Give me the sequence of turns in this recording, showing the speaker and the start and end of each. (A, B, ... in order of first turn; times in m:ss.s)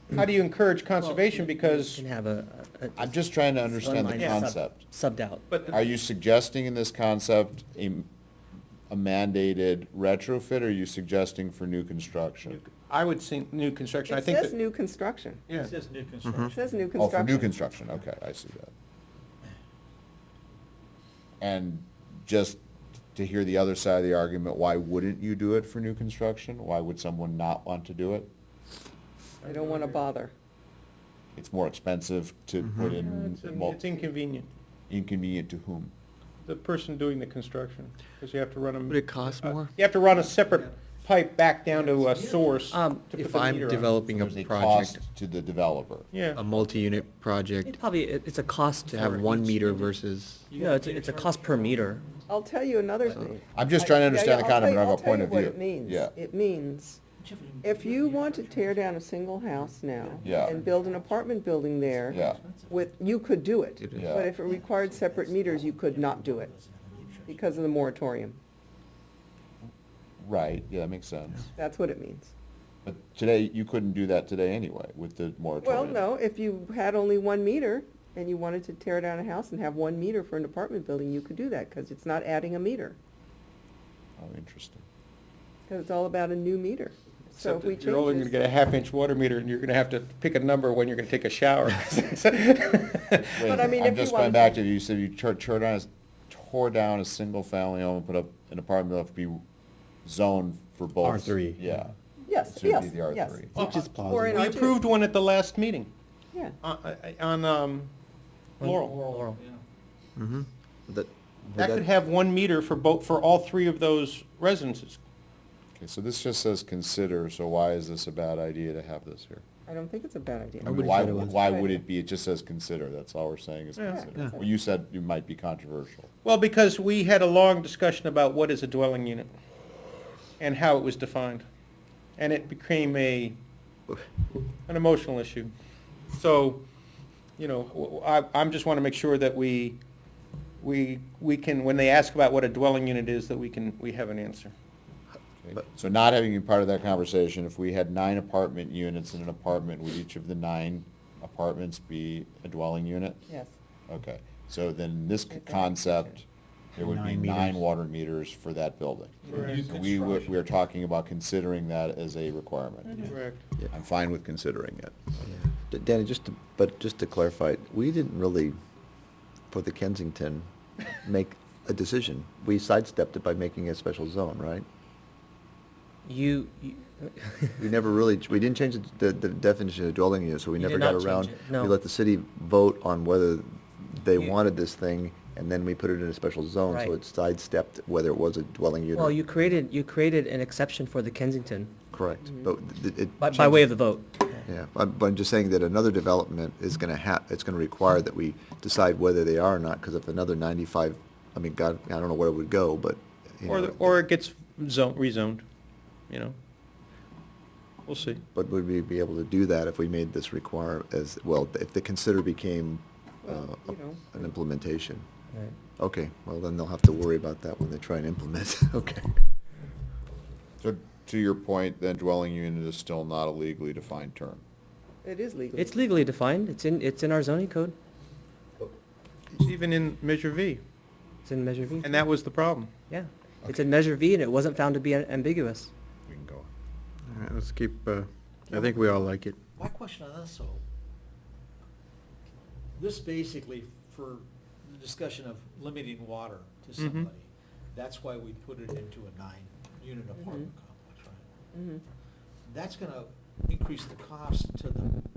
0:00.1-0:02.0 A
0:01.0-0:05.4 B
0:03.0-0:04.8 C
0:04.2-0:04.5 A
0:05.5-0:05.9 A
0:05.7-0:08.1 C
0:08.9-0:12.6 C
0:12.6-0:14.5 A
0:14.1-0:15.4 D
0:15.5-0:16.6 E
0:16.5-0:17.5 D
0:17.0-0:18.7 C
0:21.4-0:22.6 C
0:23.1-0:28.3 C
0:29.4-0:30.0 A
0:29.4-0:30.3 D
0:31.4-0:33.8 C
0:32.6-0:33.0 F
0:33.2-0:34.5 A
0:34.9-0:35.9 C
0:36.4-0:44.0 A
0:38.9-0:39.7 F
0:40.4-0:40.7 E
0:41.7-0:42.6 E
0:42.7-0:43.1 B
0:43.1-0:45.0 F
0:44.2-0:46.1 C
0:46.1-0:46.4 A
0:46.3-0:47.8 F
0:46.5-0:47.1 E
0:47.6-0:49.5 B
0:48.9-0:50.5 F
0:49.5-0:49.9 E
0:50.5-0:51.8 E
0:50.6-0:52.0 B
0:52.3-0:57.0 D
0:53.5-0:56.1 C
0:57.2-0:58.9 E
0:57.6-1:06.5 D
0:59.5-1:02.9 E
1:00.2-1:00.6 C
1:02.1-1:02.4 C
1:03.9-1:04.3 C
1:04.1-1:07.6 E
1:07.3-1:08.4 D
1:10.2-1:11.4 C
1:11.5-1:12.3 D
1:12.8-1:16.0 C
1:15.6-1:23.0 D
1:24.2-1:24.8 C
1:25.7-1:28.3 D
1:27.3-1:33.3 A
1:33.3-1:39.4 C
1:33.4-1:34.6 D
1:40.0-1:43.8 C
1:41.0-1:41.6 F
1:42.3-1:44.8 D
1:43.5-1:45.9 A
1:43.9-1:44.3 F
1:46.6-1:47.9 A
1:48.6-1:49.0 A
1:48.6-1:49.4 B
1:48.8-1:49.6 E
1:50.2-1:50.5 F
1:50.9-1:51.8 G
1:51.6-1:55.0 A
1:55.8-1:59.4 C
1:59.7-2:01.8 D
2:00.6-2:06.1 C
2:00.6-2:01.3 F
2:03.8-2:04.0 A
2:03.9-2:04.5 D
2:06.2-2:09.3 A
2:10.4-2:11.4 A
2:12.2-2:13.4 A
2:14.7-2:15.5 A
2:16.1-2:16.6 A
2:17.4-2:19.8 A
2:20.6-2:24.5 A
2:25.4-2:33.2 C
2:33.9-2:43.2 C
2:35.3-2:36.0 D
2:36.8-2:37.6 F
2:39.2-2:40.4 E
2:39.3-2:39.6 A
2:42.9-2:43.1 D
2:43.0-2:43.4 A
2:43.7-2:45.1 C
2:45.4-2:48.6 G
2:49.5-2:54.6 G
2:56.0-2:57.6 B
2:57.6-3:09.3 G
3:00.6-3:01.8 B
3:06.7-3:06.9 B
3:08.9-3:11.7 B
3:11.9-3:13.7 G
3:13.2-3:14.4 B
3:14.4-3:24.0 G
3:23.5-3:25.4 A
3:26.1-3:26.3 A
3:27.8-3:28.2 A
3:28.3-3:35.0 G
3:33.2-3:34.3 D
3:35.8-3:39.2 G
3:40.6-3:44.4 C
3:45.0-3:45.8 D
3:45.6-3:47.8 B
3:49.3-3:50.6 A
3:51.2-3:51.9 B
3:51.8-3:52.7 A
3:52.9-3:55.7 B
3:56.1-3:56.5 C
3:57.1-3:59.4 F
3:58.5-4:00.6 E
4:02.8-4:11.2 E
4:06.8-4:07.1 A
4:10.2-4:10.5 D
4:11.5-4:11.8 D
4:12.4-4:15.0 E